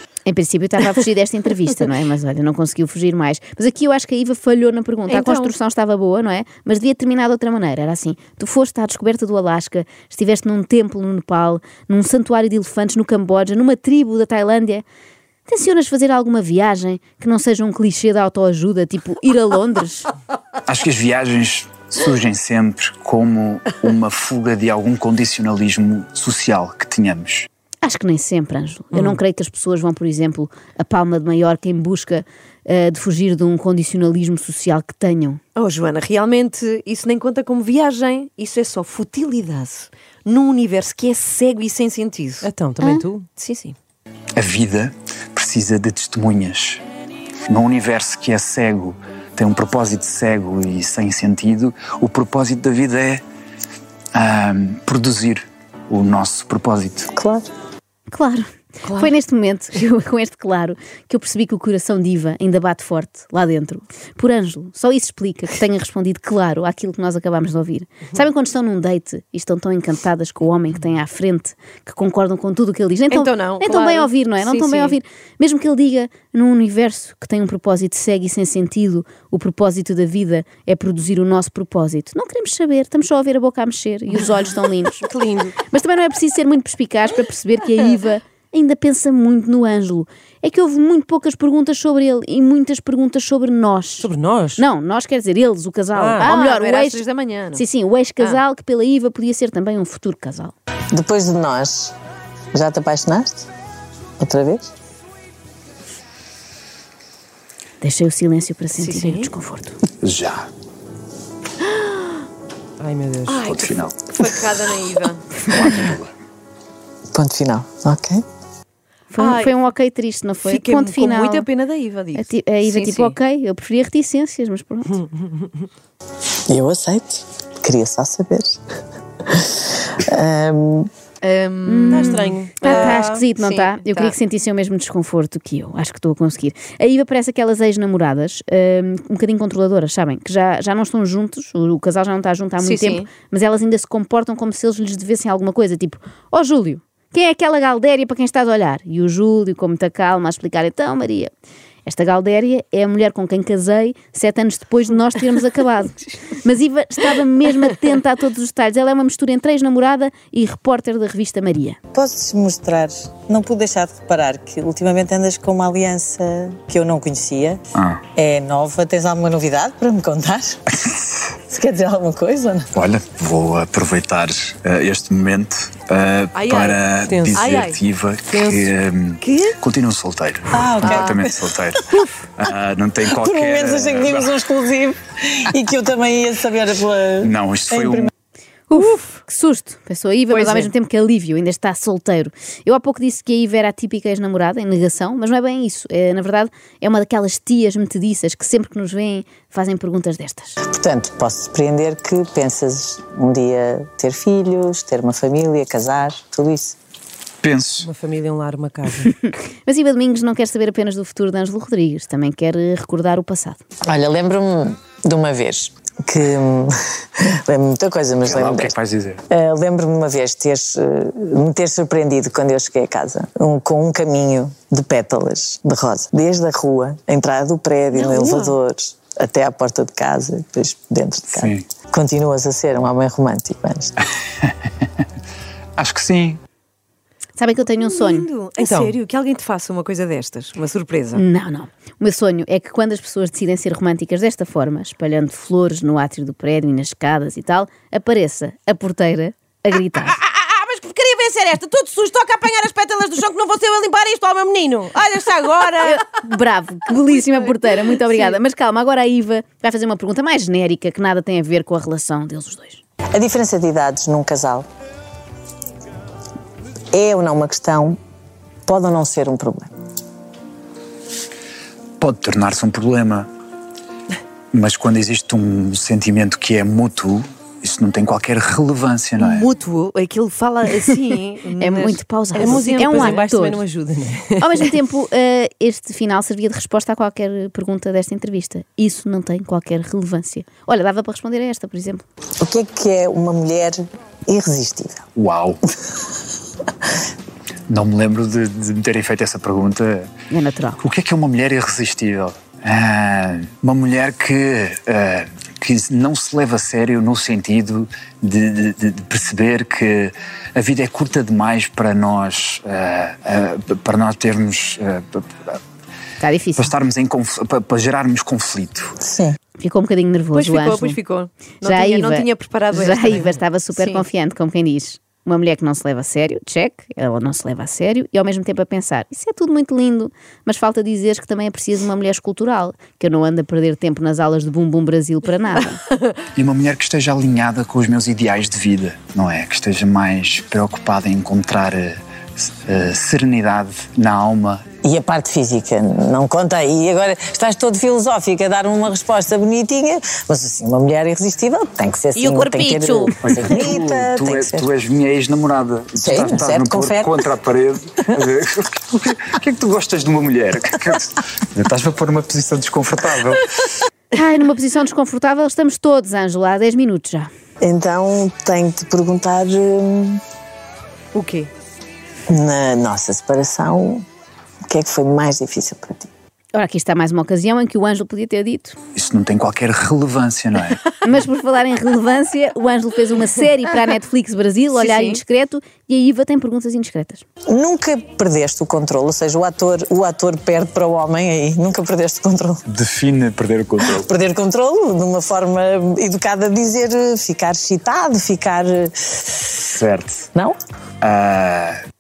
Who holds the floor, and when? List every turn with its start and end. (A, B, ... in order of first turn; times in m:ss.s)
0:00.3-0:14.8 A
0:05.1-0:05.5 B
0:15.5-0:20.1 A
0:20.7-0:27.5 C
0:27.8-0:35.4 A
0:35.6-0:43.8 B
0:42.4-0:43.3 D
0:44.4-0:46.8 C
0:47.5-0:53.2 C
0:54.2-0:57.1 C
0:57.2-0:57.5 E
0:58.1-1:25.1 A
1:13.1-1:15.0 B
1:25.0-1:25.6 D
1:25.7-1:40.5 A
1:34.0-1:34.6 D
1:36.0-1:36.3 D
1:36.2-1:37.6 B
1:40.9-1:41.9 E
1:42.5-1:43.5 E
1:44.2-1:44.7 E
1:47.8-1:49.8 A
1:48.8-1:49.3 B
1:50.0-1:50.5 C
1:51.7-1:52.1 B
1:52.8-1:53.4 D
1:53.3-1:55.4 B
1:53.4-1:54.1 C
1:55.5-1:56.1 C
1:57.1-1:58.2 E
1:59.1-2:01.5 A
1:59.2-1:59.6 B
2:00.4-2:03.2 B
2:02.2-2:05.1 A
2:06.5-2:08.6 E
2:09.3-2:10.9 E
2:11.2-2:14.1 B
2:11.7-2:31.3 A
2:11.9-2:13.2 D
2:22.6-2:23.1 B
2:31.8-2:41.8 A
2:41.9-2:47.6 E
2:47.8-2:48.0 C
2:48.2-2:50.6 E
2:51.4-2:52.7 E
2:52.8-3:04.3 C
2:56.3-2:57.8 B
2:57.0-2:57.5 D
2:58.3-2:58.7 D
2:59.2-2:59.6 B
3:00.5-3:02.0 E
3:03.1-3:08.1 E
3:07.2-3:08.1 C
3:08.7-3:20.6 A
3:08.7-3:09.2 B
3:10.3-3:10.7 B
3:20.6-3:26.8 E
3:27.4-3:27.9 C
3:27.8-3:29.2 D
3:29.6-3:33.6 A
3:33.9-3:38.7 E
3:38.3-3:39.2 C
3:39.3-3:54.0 E
3:47.9-3:48.6 B
3:51.3-3:51.7 C
3:55.8-3:56.4 C
3:57.4-3:58.3 A
3:57.8-4:01.2 B
3:58.6-3:59.0 D
4:01.1-4:10.2 A
4:10.1-4:12.8 B
4:10.9-4:15.9 D
4:13.9-4:15.8 B
4:15.8-4:22.8 A
4:23.1-4:24.7 E
4:26.9-4:28.0 E
4:28.7-4:29.7 E
4:32.0-4:33.3 C
4:34.5-4:39.5 C
4:39.2-4:43.2 B
4:41.6-4:43.6 A
4:42.4-4:44.7 D
4:44.4-4:52.0 A
4:52.4-4:55.0 E
4:55.2-4:55.6 C
4:57.7-5:00.1 C
5:00.3-5:00.8 A
5:00.8-5:15.6 C
5:16.2-5:16.7 A
5:16.6-5:19.0 C
5:19.0-5:19.4 E
5:19.6-5:21.0 A
5:20.3-5:24.0 B
5:21.6-5:35.8 A
5:36.4-5:44.6 C
5:44.8-5:54.7 E
5:52.2-5:53.5 B
5:53.2-6:03.4 C
5:56.0-5:57.3 E
6:04.1-6:07.3 A
6:07.6-6:10.2 E
6:11.1-6:11.5 B
6:12.3-6:14.0 E
6:14.7-6:16.1 E
6:16.5-6:18.8 A
6:19.0-6:20.8 C
6:21.0-6:27.2 A
6:24.7-6:25.2 B
6:27.5-6:32.6 E
6:32.7-6:34.1 C
6:33.8-6:39.6 E
6:39.7-6:40.3 C
6:41.0-6:41.8 C